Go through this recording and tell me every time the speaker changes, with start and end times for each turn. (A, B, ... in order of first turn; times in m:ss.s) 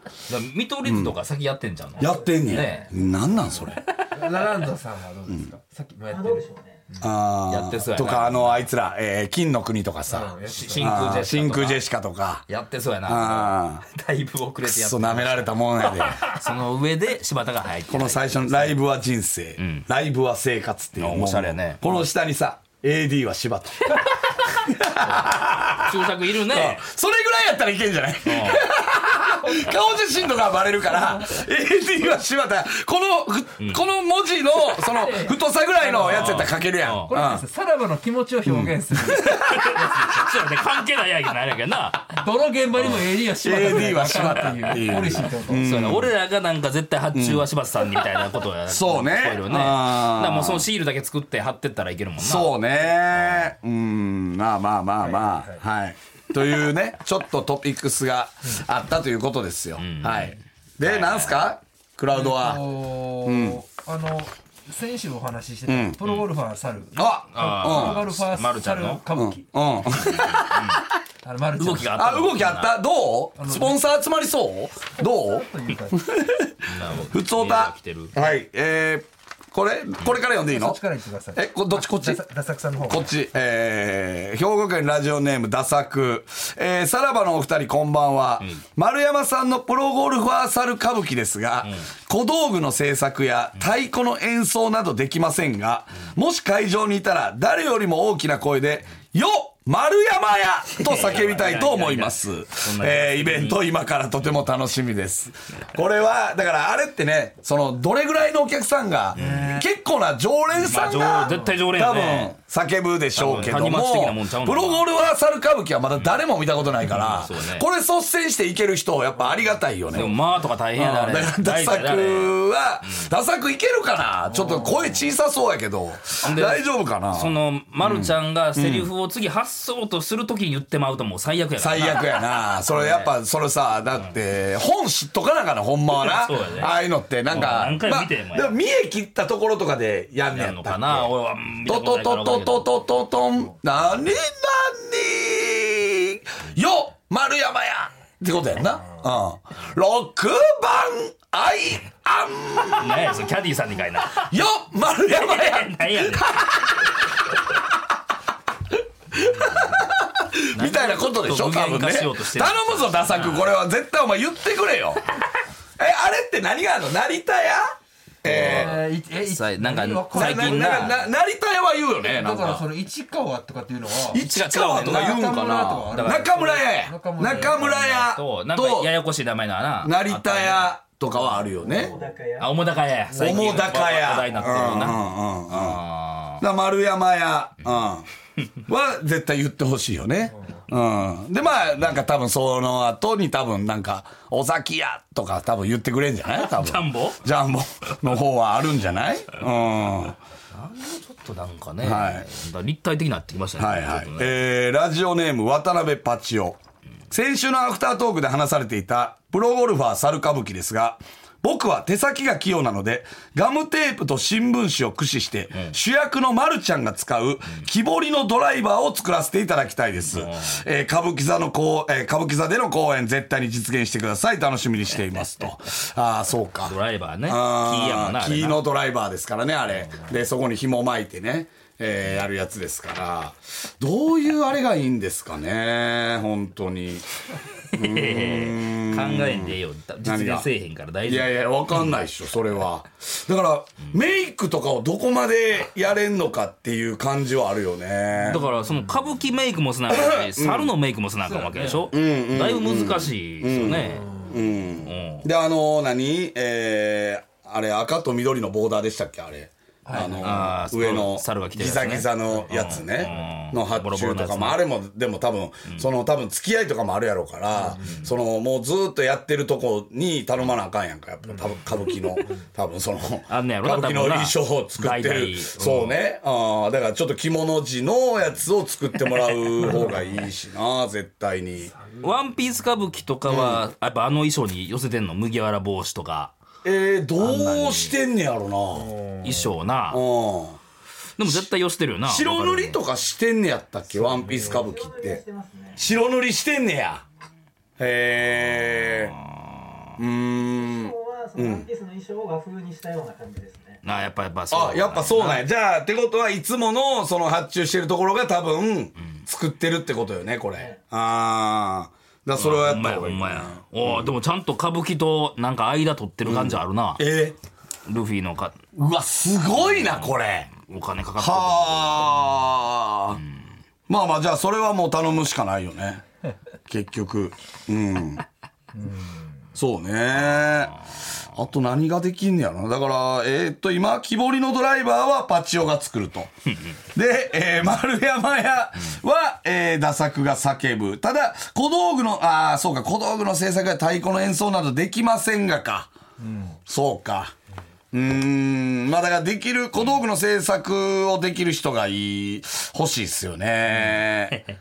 0:00.3-0:02.9 A
0:00.8-0:01.1 B
0:02.0-0:03.0 C
0:02.0-0:03.8 B
0:03.7-0:04.2 A
0:04.0-0:07.0 D
0:06.1-0:06.8 C
0:07.0-0:12.4 B
0:07.5-0:08.7 A
0:10.1-0:11.1 D
0:10.5-0:11.8 A
0:12.5-0:18.8 A
0:13.0-0:13.8 B
0:14.6-0:16.3 B
0:17.9-0:37.4 B
0:19.6-0:19.8 A
0:21.0-0:21.8 A
0:25.0-0:26.8 A
0:28.2-0:28.7 A
0:34.8-0:36.4 D
0:35.9-0:37.1 A
0:37.1-0:40.3 D
0:38.4-0:39.3 B
0:39.1-0:42.2 A
0:42.1-0:45.6 D
0:42.8-0:43.1 A
0:43.4-0:46.1 B
0:43.9-0:44.5 A
0:45.6-0:52.5 A
0:47.1-0:47.5 B
0:48.7-0:50.6 B
0:52.2-1:03.6 B
0:53.1-0:53.5 A
0:55.0-0:55.6 D
0:59.8-1:01.4 A
1:02.1-1:09.4 D
1:05.7-1:06.0 B
1:07.0-1:08.1 B
1:07.3-1:09.0 A
1:09.1-1:10.8 B
1:10.1-1:10.8 A
1:11.2-1:12.0 D
1:11.6-1:12.7 A
1:11.9-1:20.8 B
1:13.4-1:13.8 D
1:15.0-1:16.2 D
1:16.7-1:18.1 A
1:20.4-1:23.1 D
1:21.3-1:22.2 B
1:22.8-2:00.2 B
1:40.8-1:43.6 A
1:49.1-1:49.5 A
1:49.2-1:49.6 D
1:50.6-1:52.3 A
1:53.1-1:54.8 A
1:56.8-1:57.6 A
1:59.9-2:03.1 A
2:00.8-2:08.9 B
2:04.3-2:04.9 D
2:06.2-2:12.2 A
2:11.6-2:21.1 B
2:12.7-2:13.1 A
2:16.0-2:16.7 A
2:17.3-2:18.5 A
2:20.3-2:22.7 A
2:21.6-2:33.2 B
2:32.8-2:34.4 A
2:34.2-2:36.9 B
2:35.1-2:36.4 A
2:39.1-2:45.0 B
2:40.5-2:43.5 A
2:45.8-2:47.7 B
2:48.2-2:48.8 B
2:48.2-2:50.9 D
2:48.3-2:51.0 A
2:50.1-2:52.6 B
2:52.1-2:54.2 D
2:54.1-2:58.9 B
2:54.1-2:55.2 A
2:54.8-2:58.0 D
2:55.9-2:56.3 A
2:57.3-3:00.7 A
2:59.8-3:01.9 B
3:01.6-3:02.0 D
3:01.6-3:02.6 C
3:02.4-3:06.4 A
3:03.1-3:05.8 B
3:06.4-3:08.0 B
3:08.7-3:20.2 B
3:16.3-3:17.2 A
3:20.5-3:24.3 A
3:21.8-3:22.2 B
3:23.6-3:26.6 B
3:27.1-3:46.7 B
3:40.0-3:40.6 A
3:46.6-3:48.6 A
3:47.3-3:57.0 B
3:57.7-4:01.3 A
3:57.7-4:00.5 B
4:01.1-4:08.4 B
4:08.2-4:14.1 A
4:09.9-4:10.7 B
4:11.2-4:11.9 D
4:11.9-4:41.7 B
4:13.9-4:14.4 D
4:14.8-4:15.3 A
4:19.8-4:20.4 D
4:20.2-4:24.6 A
4:27.6-4:28.0 D
4:33.3-4:36.0 A
4:39.3-4:39.9 A
4:41.7-4:42.2 D
4:42.0-4:46.3 A
4:43.3-4:43.6 B
4:46.6-4:48.9 B
4:47.2-4:48.0 A
4:48.7-4:49.5 D
4:49.2-4:50.0 A
4:49.9-4:50.6 B
4:51.2-4:52.8 A
4:52.0-4:55.2 B
4:53.9-4:54.6 D
4:54.3-4:55.8 C
4:55.8-4:57.0 B
4:57.8-4:59.1 B
4:59.2-4:59.7 A
5:00.0-5:01.6 B
5:00.6-5:03.8 C
5:03.8-5:05.4 A
5:04.5-5:14.1 B
5:12.3-5:17.0 A
5:16.2-5:17.4 B
5:17.8-5:18.6 A
5:18.7-5:20.5 B
5:19.5-5:22.2 A
5:21.2-5:23.2 B
5:23.9-5:26.0 B
5:26.7-5:28.2 B
5:28.8-5:29.2 D
5:29.6-5:30.8 B
5:31.3-5:36.3 B
5:36.9-5:45.9 B
5:46.2-5:46.5 D
5:46.7-5:47.3 B
5:47.9-5:54.4 B